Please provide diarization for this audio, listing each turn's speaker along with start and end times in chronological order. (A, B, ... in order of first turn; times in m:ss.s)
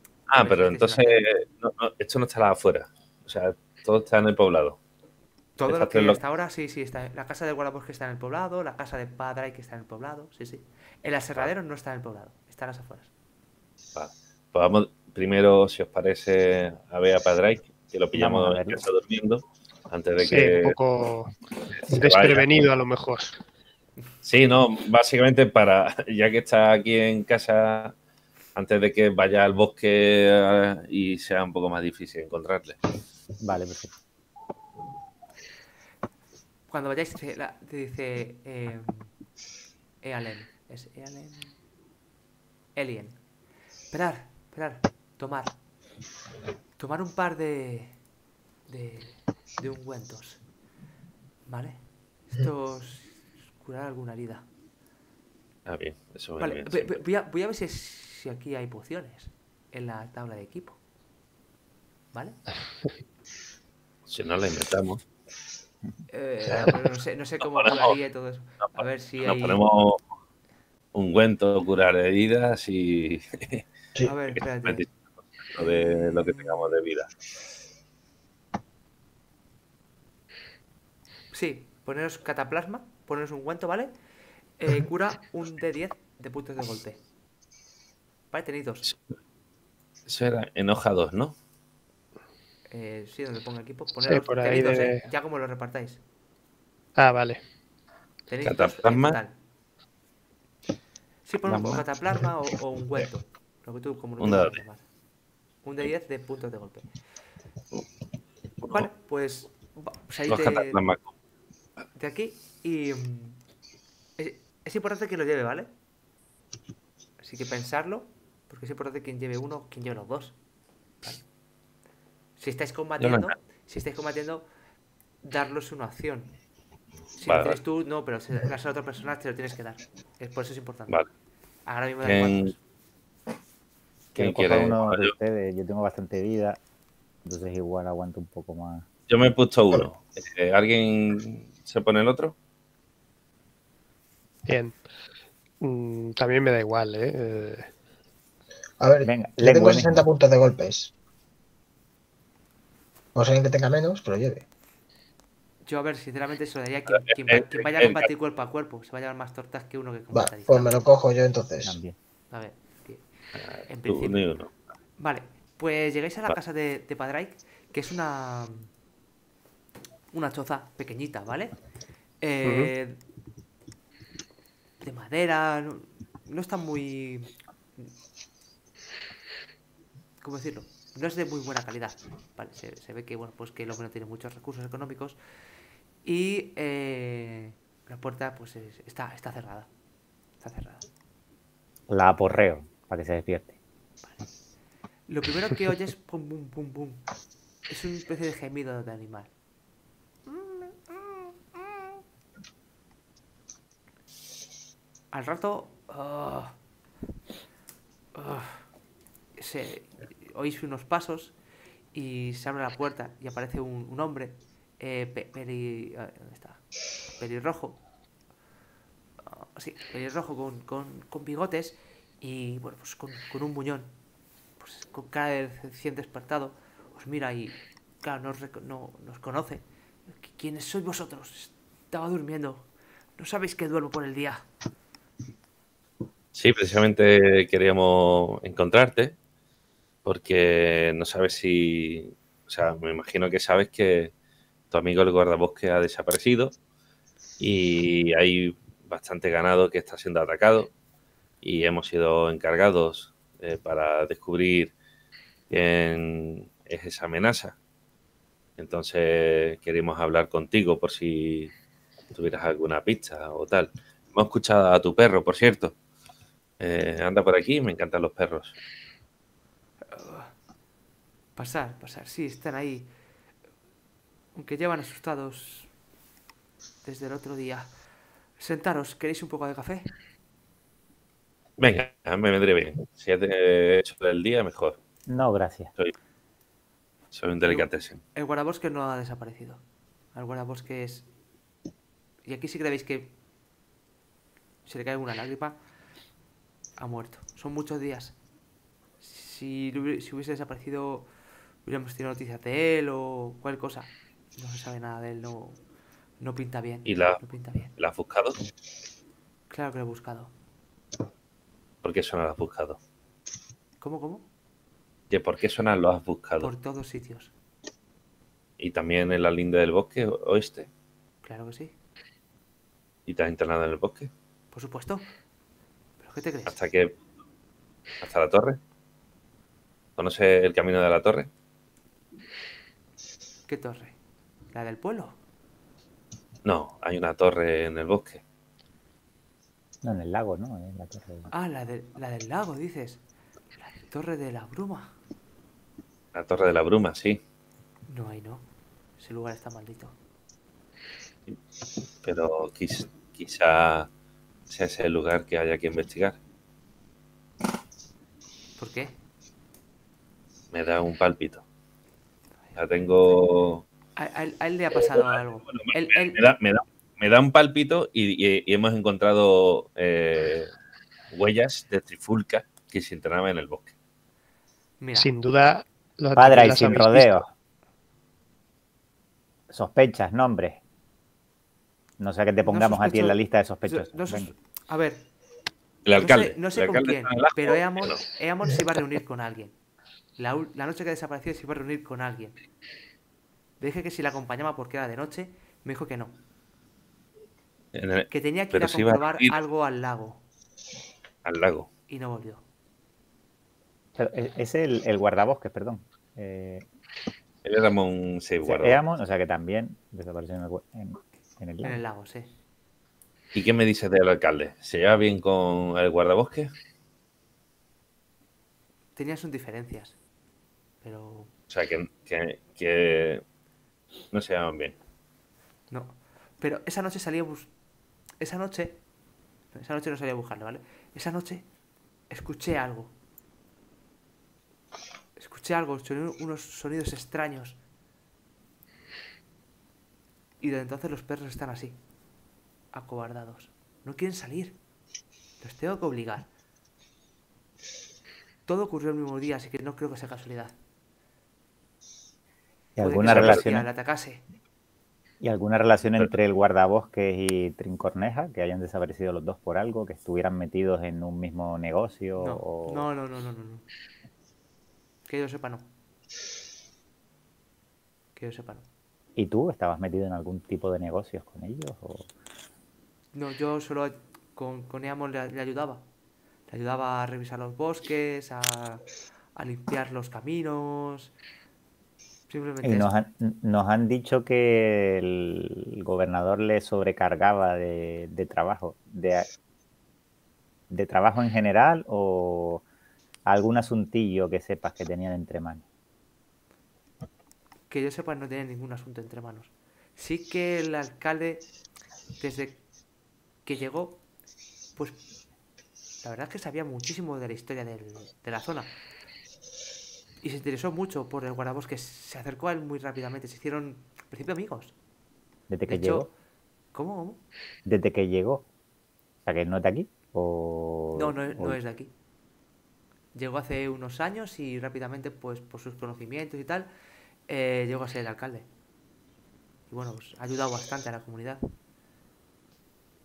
0:00.3-0:04.8 A
0:00.4-0:01.2 B
0:05.6-0:13.1 B
0:05.7-0:06.2 A
0:14.0-0:20.8 A
0:18.2-0:18.8 C
0:20.2-0:21.3 D
0:21.7-0:22.6 A
0:21.9-0:23.4 D
0:24.2-0:28.0 A
0:28.6-0:32.8 A
0:33.4-0:33.9 C
0:36.7-0:39.1 B
0:40.0-0:41.5 B
0:42.8-0:43.2 B
0:43.9-0:45.6 B
0:46.8-0:48.0 B
0:48.7-0:50.4 B
0:51.5-0:54.5 B
0:55.7-0:57.0 A
0:56.4-1:00.8 B
1:02.1-1:02.4 B
1:04.1-1:05.0 A
1:06.1-1:09.6 B
1:07.6-1:07.9 A
1:08.8-1:10.0 A
1:10.9-1:13.6 A
1:14.0-1:14.9 B
1:14.4-1:14.9 A
1:15.4-1:17.1 A
1:15.6-1:16.7 B
1:21.3-1:23.9 B
1:24.6-1:27.0 B
1:28.3-1:28.9 B
1:30.1-1:31.4 A
1:32.7-1:36.0 B
1:34.0-1:35.0 D
1:37.0-1:37.4 D
1:38.3-1:39.3 B
1:38.4-1:39.2 A
1:41.2-1:44.8 B
1:44.2-1:44.6 A
1:45.6-1:46.9 B
1:48.6-1:48.9 A
1:48.7-1:50.8 B
1:50.3-1:51.1 A
1:52.0-1:53.4 B
1:54.2-1:55.7 B
1:57.2-2:00.4 B
2:02.4-2:04.4 B
2:03.0-2:03.3 A
2:05.2-2:06.3 B
2:07.2-2:11.0 B
2:07.2-2:07.6 A
2:11.7-2:12.6 B
2:12.0-2:12.5 A
2:14.2-2:15.1 A
2:14.2-2:16.6 C
2:17.2-2:18.9 C
2:19.1-2:22.4 A
2:24.5-2:24.8 D
2:25.6-2:27.7 D
2:28.8-2:30.9 E
2:29.0-2:30.1 C
2:33.2-2:34.5 E
2:35.7-2:40.8 B
2:37.3-2:38.1 A
2:40.1-2:41.8 E
2:41.6-2:42.0 C
2:42.3-2:43.1 B
2:43.4-2:44.5 A
2:43.7-2:44.2 B
2:45.0-2:48.7 B
2:50.1-2:51.6 B
2:52.2-2:53.0 B
2:52.4-2:52.7 D
2:54.8-2:57.9 B
3:00.2-3:05.2 B
3:06.0-3:09.7 B
3:10.4-3:10.9 B
3:11.9-3:13.6 C
3:15.1-3:17.0 B
3:17.7-3:19.3 B
3:20.3-3:21.3 B
3:25.1-3:26.6 B
3:28.2-3:28.7 B
3:29.4-3:31.4 B
3:31.9-3:36.6 B
3:37.2-3:37.8 B
3:39.2-3:43.9 B
3:44.6-3:54.4 B
3:56.4-3:59.2 A
4:00.0-4:04.1 A
4:04.7-4:06.6 A
4:07.4-4:10.7 A
4:11.4-4:14.7 A
4:15.5-4:17.6 A
4:18.6-4:21.5 A
4:22.1-4:25.8 A
4:26.6-4:28.6 A
4:29.9-4:30.3 B
4:31.4-4:32.9 B
4:34.4-4:35.7 B
4:36.8-4:37.7 B
4:38.4-4:39.9 B
4:41.6-4:44.8 A
4:45.1-4:45.7 C
4:47.1-4:48.0 A
4:47.5-4:49.6 B
4:50.2-4:51.1 B
4:52.2-4:53.1 B
4:54.7-4:55.6 B
4:56.8-4:58.2 B
4:59.0-5:01.1 B
5:01.6-5:05.6 B
5:06.2-5:07.7 B
5:06.9-5:07.2 A
5:07.8-5:08.4 A
5:09.5-5:10.3 B
5:11.8-5:12.8 A
5:13.8-5:14.3 B
5:15.1-5:16.5 A
5:16.4-5:17.3 B
5:18.6-5:20.7 A
5:21.2-5:21.8 B
5:23.1-5:24.1 A
5:24.5-5:25.1 B
5:26.0-5:26.6 B
5:26.5-5:27.0 A
5:28.0-5:28.6 A
5:30.0-5:31.3 A
5:33.5-5:34.0 B
5:34.5-5:35.2 B
5:36.4-5:38.2 A
5:39.8-5:41.3 C
5:41.3-5:43.0 B
5:43.6-5:45.0 B
5:46.1-5:47.2 A
5:47.9-5:48.5 B
5:49.0-5:50.0 B
5:52.0-5:53.9 A
5:54.5-5:56.2 A
5:58.6-5:59.0 B
6:00.5-6:01.4 A
6:02.6-6:03.7 A
6:04.0-6:06.3 B
6:04.9-6:10.5 A
6:11.1-6:13.7 A
6:14.8-6:15.1 B
6:15.0-6:17.3 D
6:16.2-6:17.3 C
6:19.5-6:20.6 C
6:22.0-6:24.3 C
6:22.5-6:25.1 B
6:25.9-6:28.0 A
6:26.0-6:29.6 B
6:30.2-6:32.4 B
6:33.6-6:36.2 B
6:37.7-6:39.4 A
6:38.1-6:40.2 B
6:41.2-6:41.7 A
6:41.9-6:42.4 B
6:44.0-6:46.6 C
6:47.4-6:48.8 A
6:48.4-6:51.8 C
6:51.6-6:52.3 B
6:53.3-6:56.5 A
6:59.0-7:00.0 B
7:00.8-7:01.3 B
7:01.5-7:03.2 A
7:04.1-7:04.8 A
7:05.7-7:07.5 B
7:08.2-7:08.8 B
7:09.5-7:11.4 B
7:12.1-7:12.9 B
7:15.2-7:17.6 B
7:20.4-7:21.8 B
7:22.7-7:24.6 B
7:25.4-7:26.3 B
7:28.5-7:30.6 B
7:32.8-7:33.7 C
7:32.8-7:34.2 B
7:33.1-7:33.4 A
7:35.2-7:42.9 C
7:42.2-7:43.6 B
7:45.1-7:45.7 B
7:48.2-7:48.7 B
7:49.2-7:52.1 C
7:53.1-7:55.8 B
7:56.5-7:58.8 B
7:59.4-8:01.1 B
8:02.3-8:02.9 B
8:02.6-8:09.3 C
8:10.7-8:12.6 C
8:13.3-8:15.6 C
8:17.7-8:21.5 B
8:22.2-8:22.6 B
8:23.4-8:24.0 B
8:24.8-8:25.0 B
8:26.0-8:28.7 B
8:30.2-8:34.8 B
8:35.5-8:36.1 C
8:35.7-8:36.1 B
8:36.7-8:37.2 B
8:37.7-8:38.5 C
8:39.3-8:41.6 C
8:40.9-8:41.9 B
8:43.1-8:46.7 B
8:47.3-8:48.5 B
8:49.7-8:51.4 B